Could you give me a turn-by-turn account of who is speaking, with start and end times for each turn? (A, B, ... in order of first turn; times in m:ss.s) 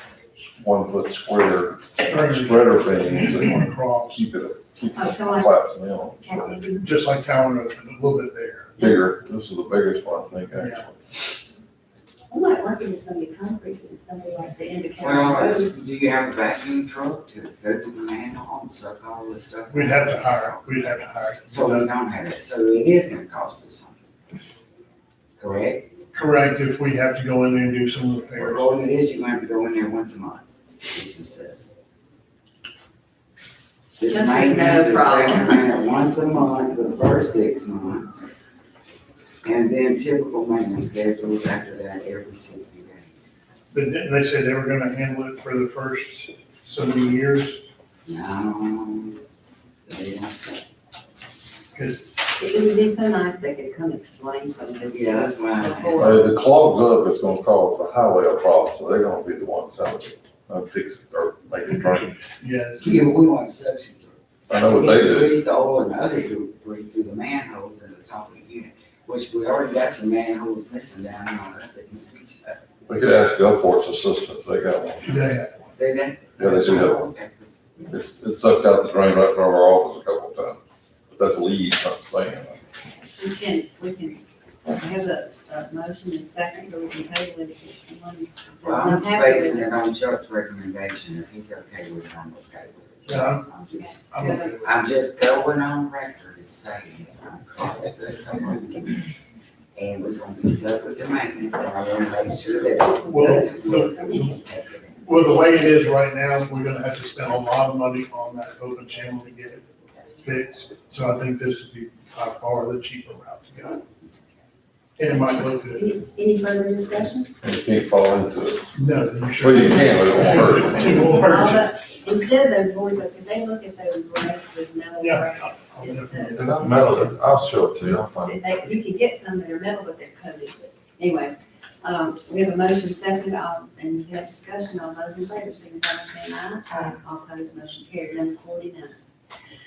0:00.5-0:06.7 A
0:02.0-0:04.2 B
0:05.0-0:05.5 C
0:06.2-0:06.9 C
0:06.8-0:08.8 B
0:08.8-0:11.2 A
0:10.5-0:10.8 B
0:12.3-0:15.7 C
0:15.0-0:24.0 D
0:19.7-0:21.9 B
0:25.4-0:25.9 D
0:26.1-0:28.6 B
0:28.4-0:31.7 D
0:34.0-0:38.3 D
0:34.1-0:35.6 C
0:39.4-0:43.4 D
0:43.7-0:47.6 B
0:48.1-0:49.2 D
0:49.9-0:50.6 D
0:51.7-0:52.0 B
0:52.4-0:56.2 C
0:54.9-0:56.2 D
0:56.0-1:02.2 A
1:02.4-1:02.9 B
1:02.8-1:12.6 D
1:04.5-1:05.3 A
1:12.9-1:15.2 A
1:15.1-1:15.5 B
1:15.8-1:17.5 D
1:16.4-1:17.1 A
1:17.9-1:22.6 A
1:23.2-1:29.7 C
1:28.6-1:34.0 D
1:33.1-1:34.7 B
1:33.7-1:34.6 C
1:34.6-1:39.0 D
1:39.8-1:45.2 D
1:43.1-1:44.4 B
1:45.0-1:53.8 B
1:45.3-1:45.8 C
1:55.0-1:55.9 B
1:55.1-1:57.3 C
1:57.4-1:58.7 A
1:58.8-2:01.7 B
1:59.4-2:01.0 A
2:00.8-2:07.0 C
2:05.0-2:07.0 B
2:06.4-2:08.4 A
2:08.2-2:19.0 C